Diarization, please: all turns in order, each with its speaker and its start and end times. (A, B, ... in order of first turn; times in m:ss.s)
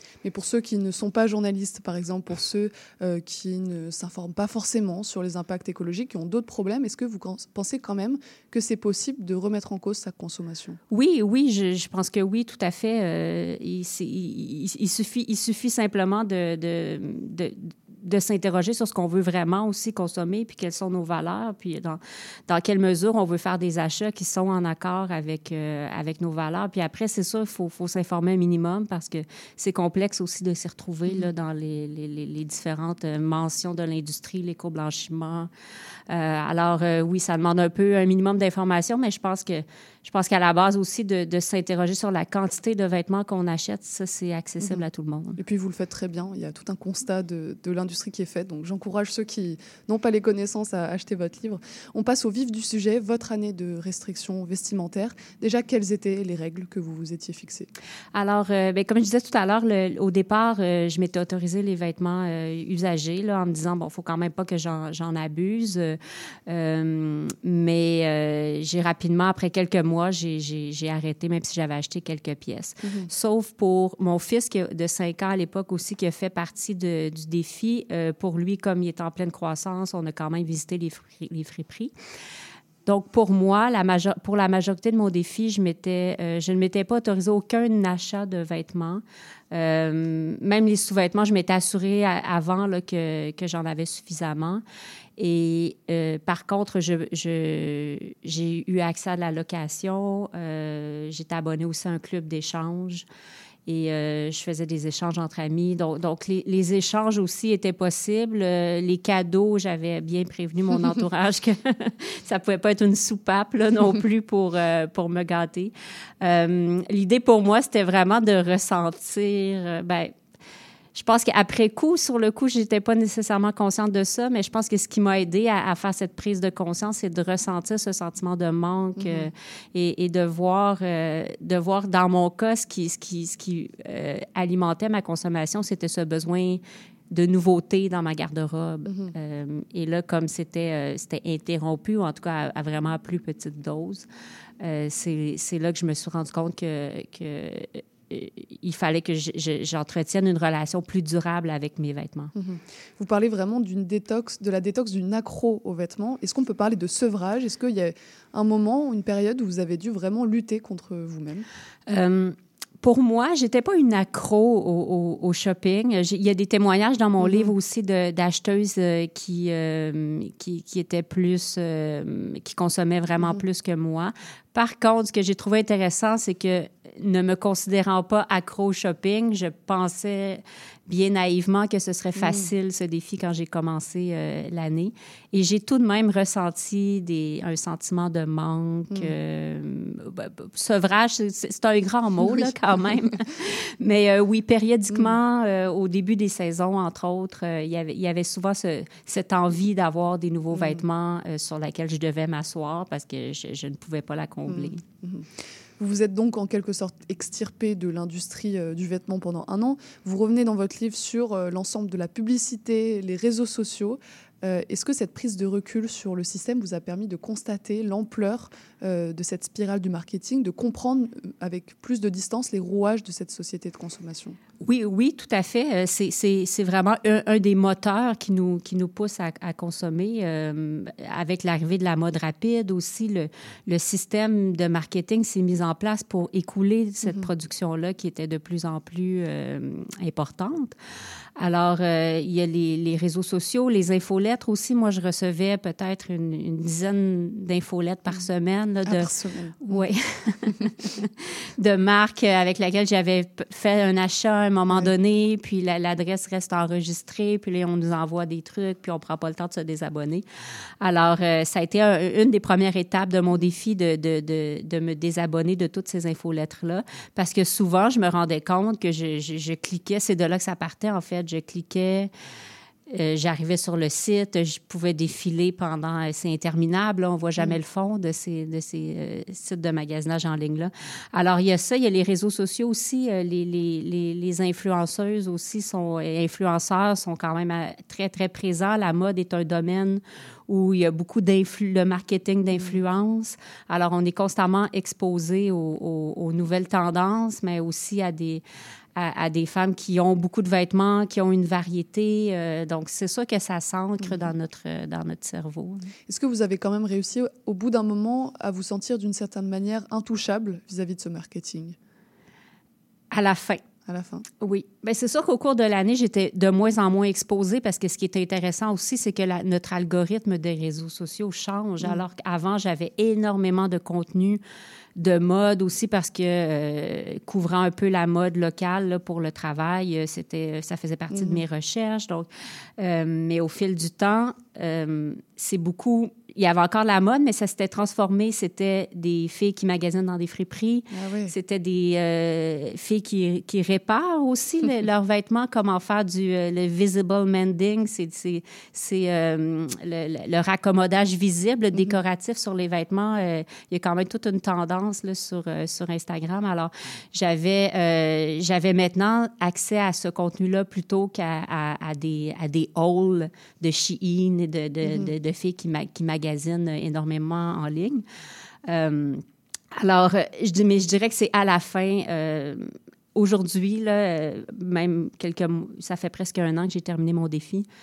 0:00.2-0:10.8 A
0:10.9-0:35.5 B
0:36.1-0:45.4 B
0:45.4-0:57.7 A
0:58.1-1:21.9 B
1:12.8-1:13.1 A
1:22.8-1:34.6 B
1:35.2-1:43.0 B
1:43.6-2:00.1 B
2:00.9-2:24.0 B
2:09.0-2:09.3 A
2:18.8-2:19.1 A
2:24.6-2:32.3 B
2:32.3-2:41.5 A
2:41.9-3:24.8 B
2:47.2-2:47.5 A
3:02.2-3:02.5 A
3:14.9-3:15.2 A
3:20.5-3:20.8 A
3:24.5-3:44.4 A
3:44.6-4:00.7 B
4:01.4-4:09.1 B
4:08.8-4:09.9 A
4:09.6-4:20.2 B
4:20.8-4:32.1 B
4:32.9-4:58.4 B
4:52.5-4:52.8 A
4:59.0-5:05.9 B
5:04.0-5:04.3 A
5:06.0-5:11.8 A
5:13.1-5:13.6 B
5:13.8-5:14.2 A
5:14.4-5:24.4 B
5:25.0-6:08.0 B
5:31.1-5:31.4 A
5:40.9-5:41.3 A
6:04.8-6:05.1 A
6:08.7-6:17.6 B